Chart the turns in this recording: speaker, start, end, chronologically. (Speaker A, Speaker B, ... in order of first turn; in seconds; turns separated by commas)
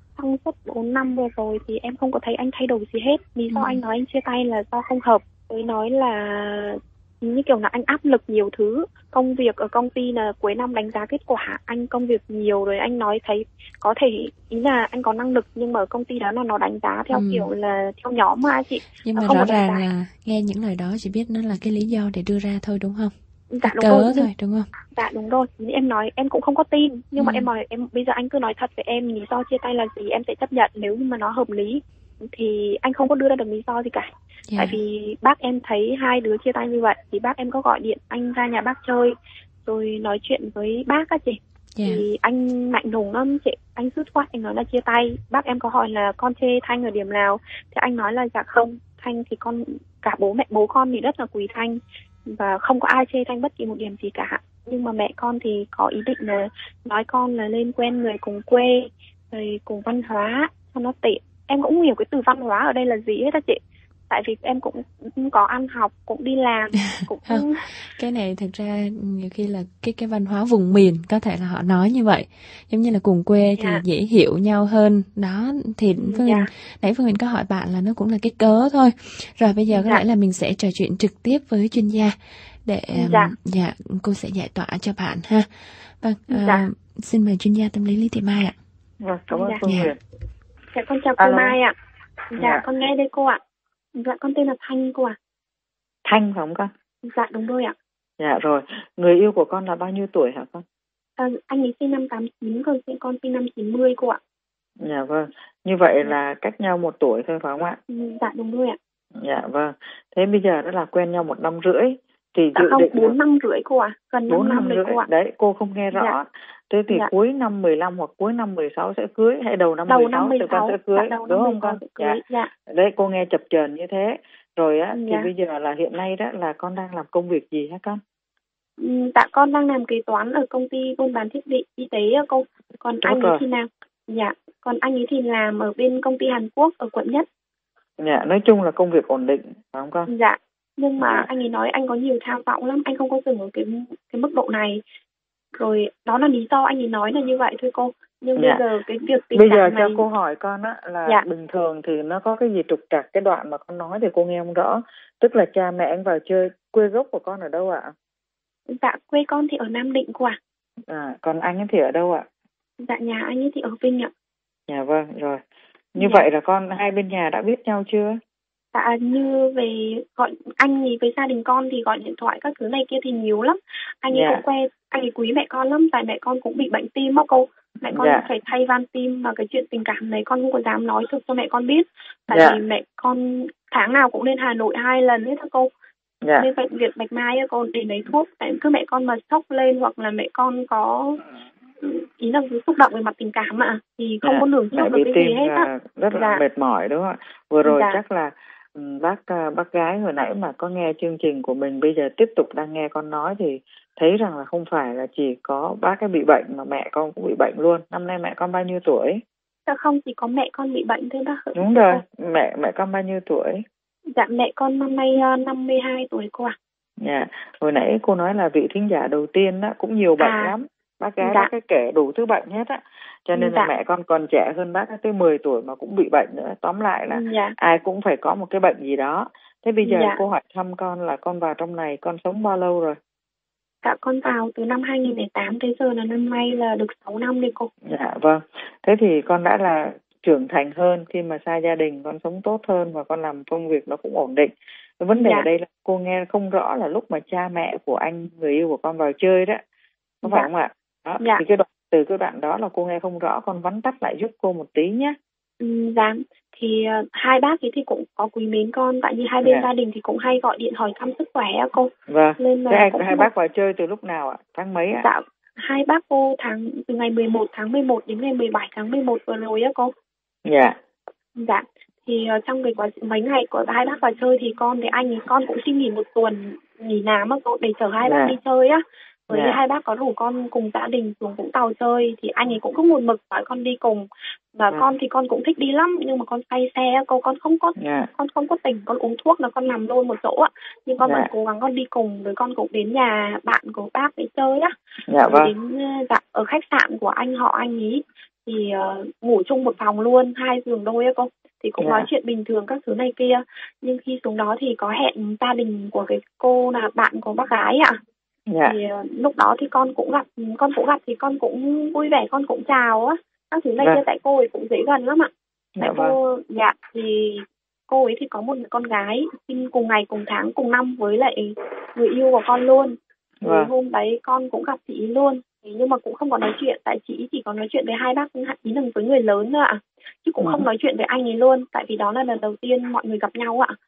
Speaker A: 0.2-19.8, Speaker B: 3.5-3.8, Speaker B: 17.1-17.5, Speaker B: 19.0-24.7, Speaker A: 23.5-24.3, Speaker A: 24.9-67.7, Speaker B: 27.2-27.5, Speaker B: 34.5-34.8, Speaker B: 41.8-42.0, Speaker B: 67.3-88.6, Speaker A: 73.6-73.8, Speaker A: 76.0-76.5, Speaker A: 79.7-80.0, Speaker A: 82.9-83.3, Speaker A: 86.3-86.7, Speaker C: 89.0-90.0, Speaker A: 89.3-89.6, Speaker B: 89.7-89.9, Speaker A: 90.7-91.8, Speaker C: 91.2-91.6, Speaker A: 92.3-93.4, Speaker C: 92.4-92.7, Speaker A: 94.0-95.2, Speaker C: 96.0-96.7, Speaker A: 97.0-97.8, Speaker C: 98.2-100.6, Speaker A: 101.2-104.2, Speaker C: 104.8-107.8, Speaker A: 107.9-108.8, Speaker C: 109.2-113.2, Speaker A: 112.5-115.1, Speaker C: 114.3-128.0, Speaker A: 119.9-122.5, Speaker A: 124.9-125.3, Speaker A: 128.8-137.3, Speaker C: 133.0-133.4, Speaker C: 138.0-140.1, Speaker A: 140.1-144.8, Speaker C: 141.0-141.3, Speaker A: 145.6-150.1, Speaker C: 148.4-148.6, Speaker C: 149.3-157.9, Speaker A: 158.7-160.4, Speaker C: 160.9-162.3, Speaker A: 162.8-164.1, Speaker C: 164.7-165.4, Speaker C: 165.9-168.2, Speaker A: 166.0-166.3, Speaker A: 168.7-185.7, Speaker C: 174.1-174.4, Speaker C: 177.9-178.3, Speaker C: 182.3-182.6, Speaker A: 186.4-191.2, Speaker A: 191.8-196.4, Speaker C: 194.2-209.2, Speaker A: 197.7-198.0, Speaker A: 209.7-212.0, Speaker C: 211.6-213.6, Speaker A: 214.1-216.6, Speaker C: 217.0-233.0, Speaker A: 220.2-220.5, Speaker A: 221.2-221.5, Speaker A: 223.3-223.7, Speaker A: 227.1-227.6, Speaker A: 229.8-230.2, Speaker A: 233.8-237.7, Speaker C: 237.9-249.6, Speaker A: 245.2-245.5, Speaker C: 250.2-255.2, Speaker A: 250.2-250.5, Speaker A: 255.6-263.3, Speaker C: 262.1-265.1, Speaker A: 264.9-269.9, Speaker C: 270.5-270.8, Speaker A: 271.4-308.0, Speaker C: 278.0-278.4, Speaker C: 279.3-279.6, Speaker C: 287.8-288.1, Speaker C: 291.0-291.3, Speaker C: 295.1-295.5, Speaker C: 301.8-302.1, Speaker C: 308.5-308.8, Speaker A: 308.6-315.3, Speaker C: 315.8-316.1, Speaker A: 315.8-333.8, Speaker C: 323.4-323.7, Speaker C: 330.4-330.7